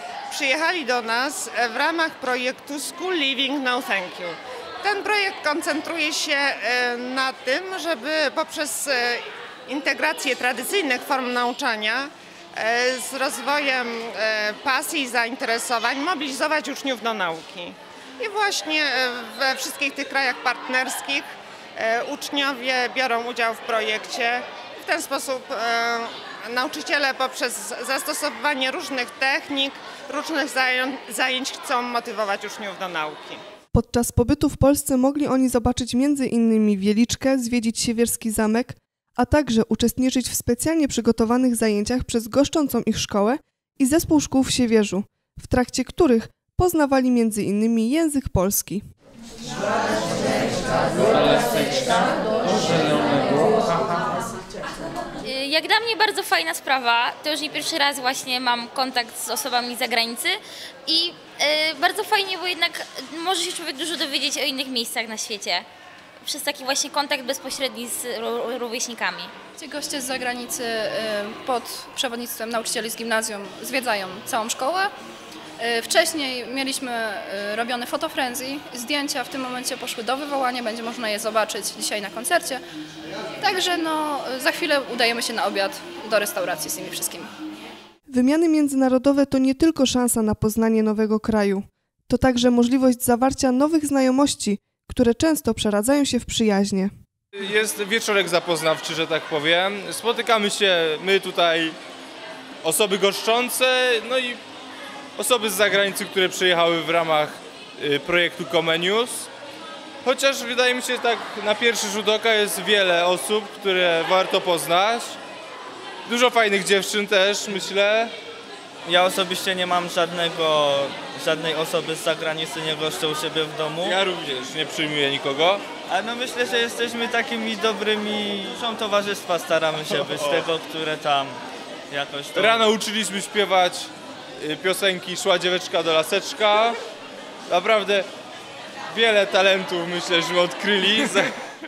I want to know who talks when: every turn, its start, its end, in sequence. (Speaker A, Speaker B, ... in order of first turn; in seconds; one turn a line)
Speaker A: 0.3-33.4
Speaker B: 33.7-48.8
Speaker C: 55.2-65.7
Speaker C: 66.2-69.3
Speaker D: 69.6-74.9
Speaker D: 75.6-82.6
Speaker D: 83.4-87.3
Speaker B: 88.1-96.9
Speaker E: 97.4-101.8
Speaker E: 102.6-104.4
Speaker E: 105.2-109.3
Speaker E: 110.0-115.2
Speaker E: 116.1-118.1
Speaker F: 118.8-124.0
Speaker E: 123.8-125.6
Speaker F: 125.9-132.7
Speaker E: 129.9-130.5
Speaker E: 132.3-136.8
Speaker E: 137.5-138.1
Speaker E: 138.9-141.3